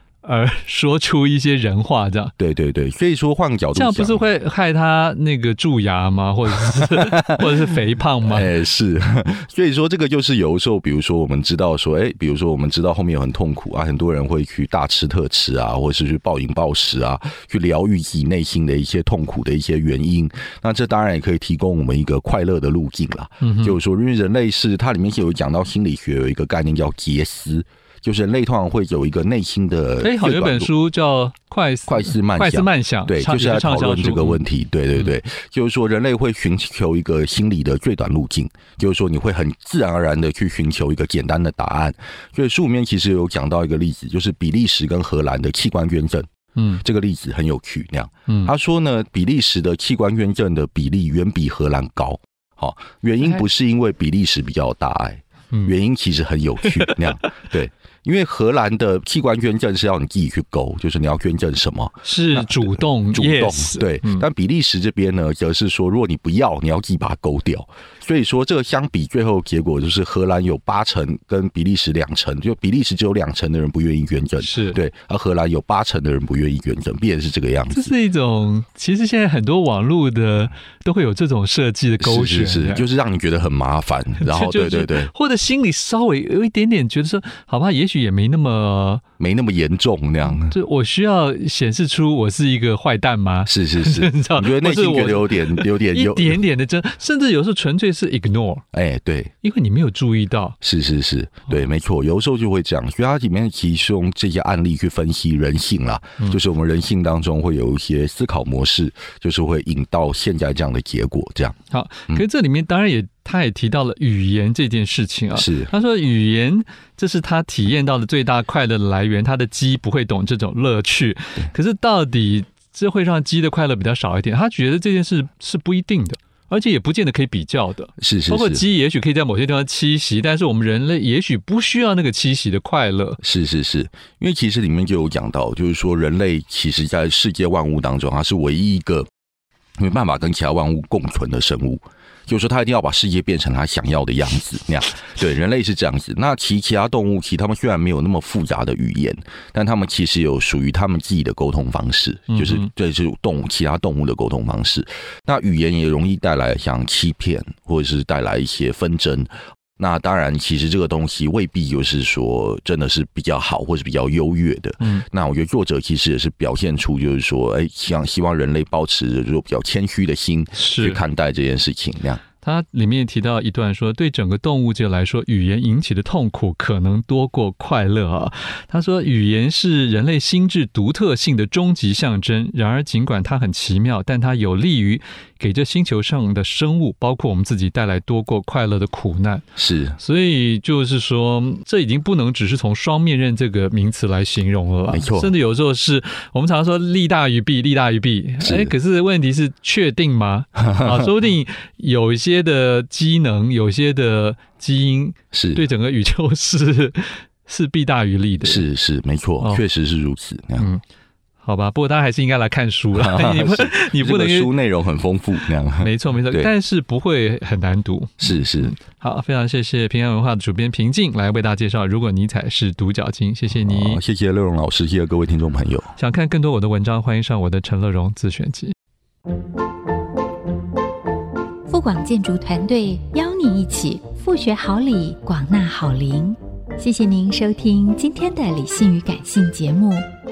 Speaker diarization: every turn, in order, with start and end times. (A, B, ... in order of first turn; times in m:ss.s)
0:00.2-0:02.3 A
0:02.4-0:04.2 B
0:03.8-0:08.5 A
0:06.8-0:07.7 B
0:08.2-0:30.7 B
0:23.4-0:23.8 A
0:30.0-0:34.4 A
0:31.9-1:18.0 B
0:48.3-0:48.5 A
0:56.6-0:57.0 A
1:02.0-1:04.2 A
1:14.4-1:14.8 A
1:17.7-1:22.8 A
1:22.0-1:25.1 B
1:24.2-1:29.0 A
1:29.2-1:30.6 B
1:30.2-1:38.6 A
1:33.5-1:36.4 B
1:38.7-1:39.3 B
1:39.4-1:40.6 A
1:40.6-1:51.6 B
1:51.7-2:13.2 A
1:55.4-1:55.7 B
2:08.0-2:08.6 B
2:13.2-2:19.1 B
2:19.8-2:52.2 B
2:32.3-2:32.7 A
2:50.6-2:51.0 A
2:52.4-3:09.5 A
3:09.6-3:10.0 B
3:10.0-3:28.6 A
3:14.9-3:15.3 B
3:18.4-3:18.7 B
3:20.6-3:21.0 B
3:25.3-3:25.6 B
3:28.4-3:30.7 B
3:31.4-3:34.5 A
3:33.0-3:36.5 B
3:35.8-3:44.0 A
3:38.2-3:38.8 B
3:43.5-3:45.9 B
3:46.0-3:48.8 A
3:51.7-4:00.1 C